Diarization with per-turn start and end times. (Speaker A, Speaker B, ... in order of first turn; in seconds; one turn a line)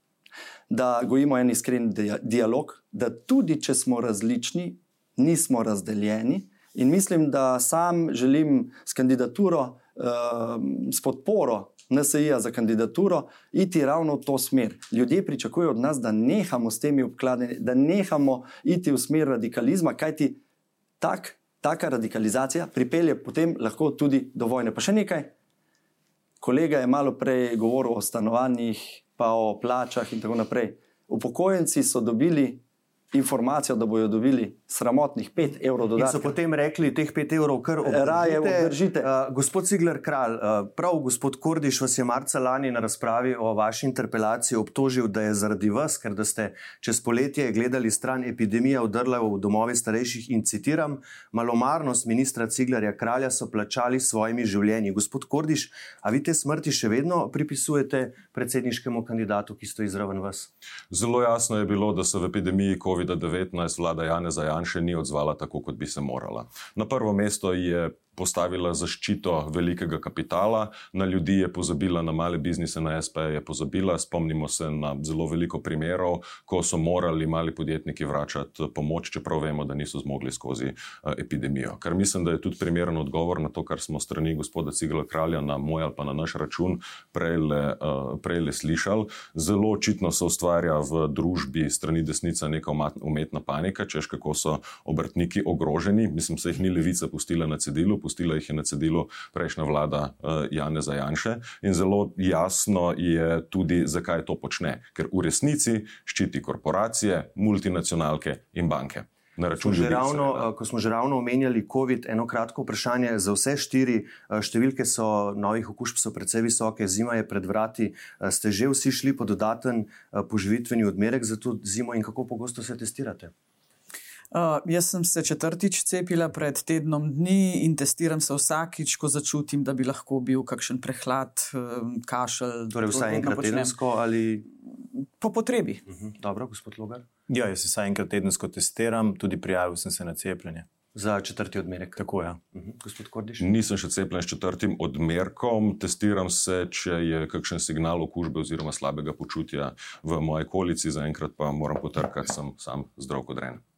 Speaker A: 0.7-20.4
Speaker A: 21.0-25.3
Speaker A: 26.4-36.3
Speaker B: 36.0-60.5
Speaker A: 37.8-39.1
Speaker C: 60.9-110.5
Speaker B: 109.6-123.3
Speaker D: 124.3-133.7
Speaker B: 132.7-134.5
Speaker D: 135.2-135.8
Speaker B: 135.9-137.1
Speaker E: 137.3-140.7
Speaker B: 140.9-142.0
Speaker E: 142.0-142.4
Speaker B: 142.5-143.4
Speaker C: 143.4-153.6